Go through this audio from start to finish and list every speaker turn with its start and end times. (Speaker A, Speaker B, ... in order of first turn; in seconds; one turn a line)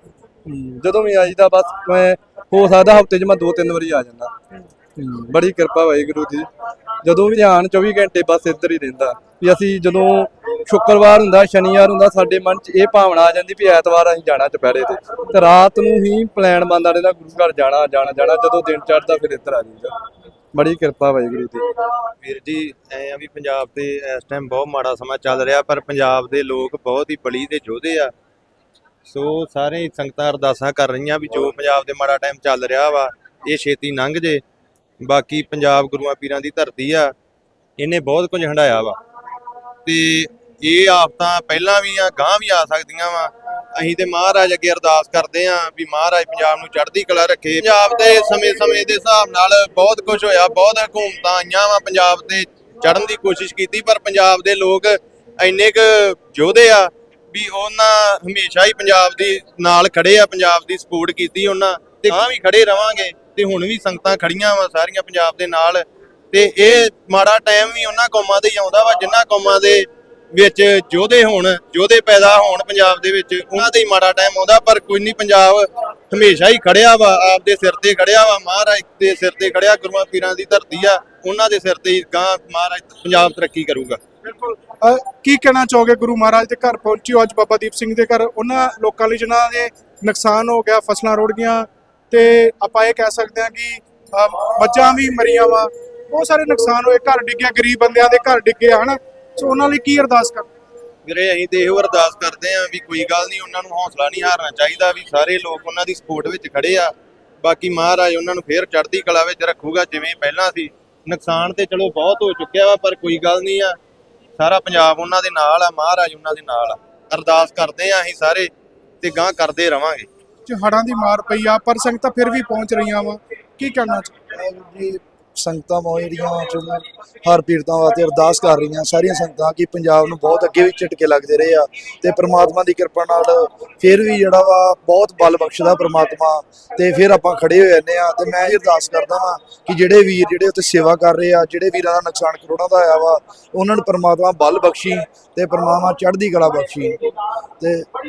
Speaker A: 0.5-4.3
Speaker A: 5.0-6.5
Speaker A: 7.0-19.9
Speaker A: 20.5-21.6
Speaker B: 22.2-28.1
Speaker B: 29.1-34.4
Speaker B: 35.0-37.1
Speaker B: 37.8-39.0
Speaker B: 39.9-84.0
Speaker C: 84.3-100.5
Speaker B: 101.0-113.8
Speaker B: 114.4-118.5
Speaker B: 119.0-120.1
Speaker C: 120.5-124.1
Speaker D: 124.3-147.0
Speaker D: 147.6-147.9